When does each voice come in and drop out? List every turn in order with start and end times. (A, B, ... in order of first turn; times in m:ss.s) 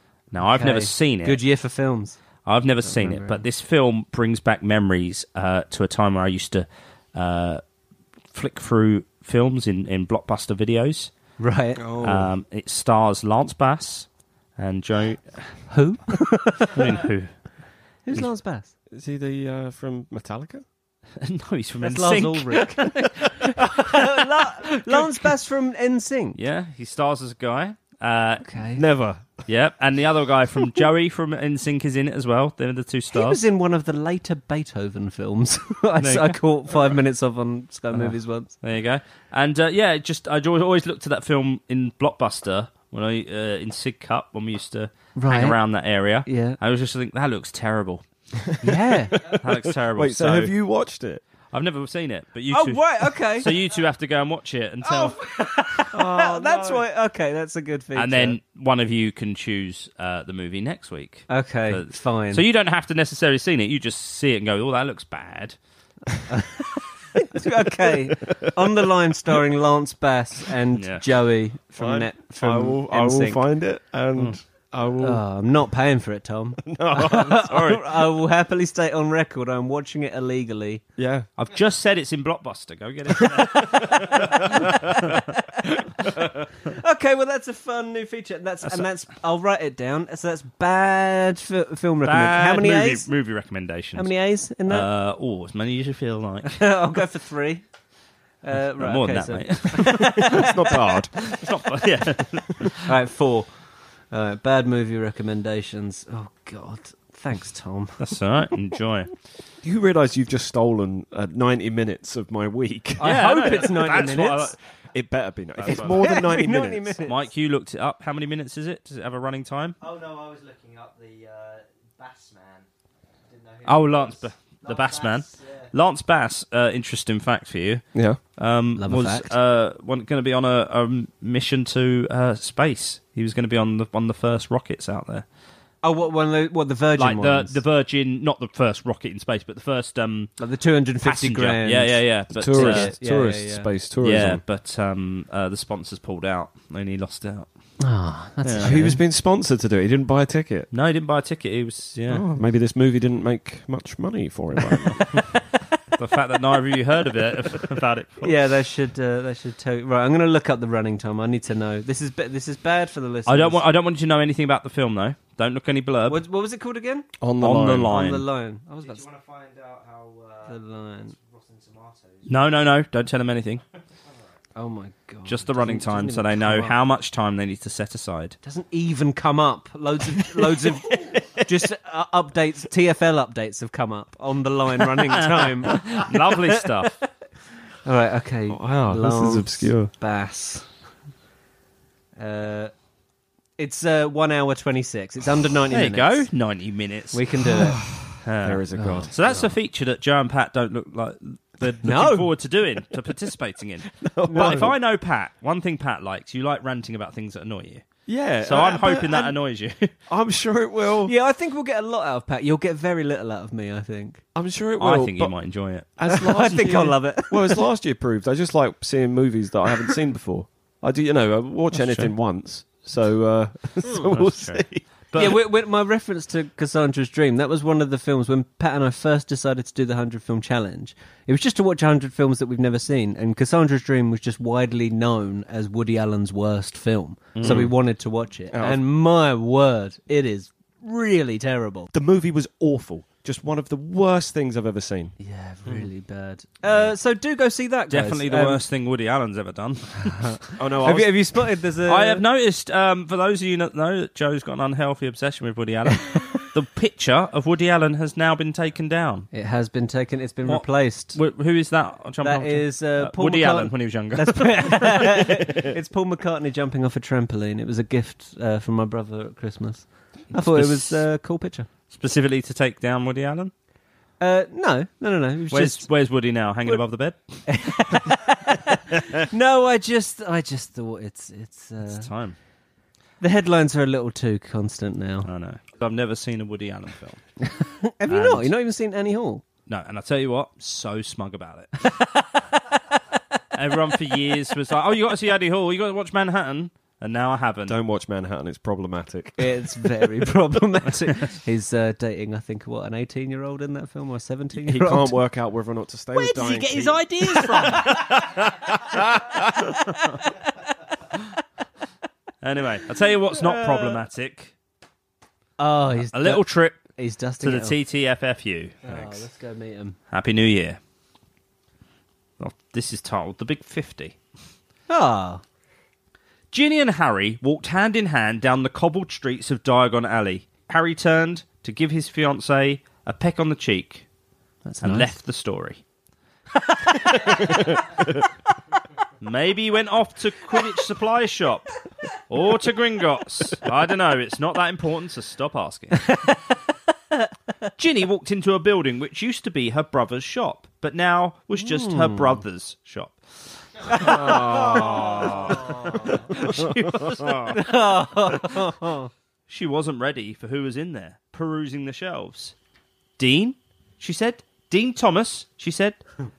0:00.3-0:01.4 A
0:00.4-0:02.2 B
0:02.4-0:07.6 A
0:02.8-0:03.4 B
0:08.3-0:11.1 A
0:11.4-0:11.8 B
0:11.8-0:12.3 C
0:12.0-0:15.6 A
0:15.7-0:16.9 B
0:16.7-0:17.4 A
0:18.0-0:18.7 B
0:18.9-0:20.6 C
0:21.2-0:24.0 A
0:21.8-0:26.4 B
0:26.4-0:28.4 A
0:28.4-0:28.8 B
0:28.8-0:29.4 C
0:29.5-0:33.4 A
0:33.1-0:38.5 B
0:36.0-0:36.4 A
0:37.9-0:48.0 A
0:45.2-0:45.6 B
0:46.2-0:46.6 B
0:48.6-0:49.2 B
0:48.7-0:51.2 C
0:49.1-0:50.5 A
0:51.5-0:55.2 A
0:52.5-0:53.5 B
0:54.8-0:58.4 B
0:55.9-0:56.8 C
0:57.9-1:05.6 A
1:01.3-1:02.4 B
1:06.3-1:13.4 B
1:10.7-1:11.0 A
1:11.8-1:15.2 C
1:15.0-1:20.8 B
1:16.6-1:18.0 C
1:21.0-1:21.3 C
1:21.4-1:24.7 A
1:23.7-1:25.6 B
1:23.8-1:24.8 C
1:26.0-1:26.4 C
1:26.6-1:33.1 B
1:32.0-1:34.1 A
1:34.0-1:34.9 B
1:34.6-1:36.6 A
1:36.4-1:37.6 B
1:38.4-1:40.8 B
1:38.8-1:40.5 A
1:40.1-1:41.3 C
1:41.2-1:42.8 A
1:42.8-1:43.5 B
1:44.1-1:48.0 B
1:48.0-1:49.1 A
1:49.6-1:53.2 C
1:53.0-1:54.5 B
1:53.0-1:54.5 A
1:54.9-1:57.0 C
1:55.6-1:56.0 A
1:55.6-1:57.3 B
1:57.0-1:59.8 A
1:59.8-2:02.7 D
2:03.2-2:05.7 D
2:03.6-2:07.8 A
2:08.4-2:15.2 A
2:08.8-2:09.3 B
2:15.8-2:17.6 B
2:17.0-2:20.4 A
2:20.4-2:23.7 B
2:21.0-2:22.9 A
2:22.3-2:24.4 C
2:24.0-2:27.5 A
2:27.8-2:29.0 B
2:28.4-2:28.8 A
2:28.6-2:30.7 C
2:30.7-2:32.2 A
2:32.1-2:35.2 C
2:36.0-2:38.3 A
2:38.2-2:43.6 B
2:43.2-2:46.2 A
2:46.1-2:47.1 B
2:47.2-2:48.0 C
2:47.4-2:48.2 A
2:47.8-2:49.0 B
2:48.8-2:52.3 D
2:50.5-2:51.1 B
2:52.3-2:53.6 A
2:54.6-2:56.8 B
2:55.2-2:58.4 A
2:58.4-3:06.9 B
3:05.0-3:06.9 A
3:07.8-3:10.7 B
3:08.5-3:09.9 C
3:12.2-3:12.7 B
3:13.6-3:16.3 B
3:15.7-3:17.6 A
3:17.1-3:17.8 B
3:17.5-3:19.3 C
3:18.2-3:27.8 A
3:18.8-3:19.4 B
3:21.8-3:22.3 B
3:23.9-3:24.7 C
3:24.2-3:24.7 B
3:28.0-3:29.4 C
3:28.4-3:29.9 A
3:30.1-3:31.1 C
3:31.0-3:34.2 B
3:34.3-3:35.3 C
3:34.8-3:35.9 A
3:36.0-3:44.8 C
3:36.1-3:37.6 B
3:41.7-3:42.1 A
3:44.1-3:45.4 A
3:45.1-4:01.9 B
3:57.3-3:57.7 A
3:57.4-3:57.7 C
3:58.5-3:58.8 C
4:01.9-4:05.1 C
4:05.2-4:08.6 B
4:07.9-4:10.4 A
4:10.2-4:12.2 B
4:10.6-4:11.2 C
4:11.8-4:19.3 A
4:19.3-4:21.2 B
4:20.4-4:25.3 A
4:22.2-4:31.7 B
4:30.4-4:31.0 A
4:31.9-4:33.5 A
4:34.2-4:35.9 B
4:35.5-4:38.0 A
4:37.4-4:42.1 B
4:41.9-4:42.4 A
4:43.2-4:45.3 B
4:45.2-4:47.3 A
4:47.4-4:49.4 B
4:48.1-4:48.5 A
4:49.7-4:52.0 A
4:53.5-4:57.8 A
4:57.6-4:59.6 C
4:59.4-5:05.1 B
5:04.6-5:09.4 C
5:06.1-5:08.2 B
5:08.9-5:10.7 B
5:12.4-5:14.5 A
5:13.3-5:14.0 B
5:15.6-5:17.8 B
5:16.0-5:16.9 A
5:17.4-5:18.8 A
5:18.8-5:20.0 B
5:20.1-5:20.8 A
5:22.4-5:24.2 A
5:24.9-5:25.4 B
5:26.5-5:34.0 A
5:34.6-5:35.1 B
5:34.8-5:35.8 A
5:36.6-5:37.9 B
5:39.2-5:41.7 A
5:42.3-5:46.0 A
5:45.9-5:46.6 B
5:47.8-5:57.7 A
5:51.6-5:52.4 B
5:53.9-5:55.7 C
5:53.9-5:56.2 B
5:56.3-5:57.5 C
5:57.5-5:59.1 B
5:59.5-6:02.5 A
6:03.2-6:06.0 A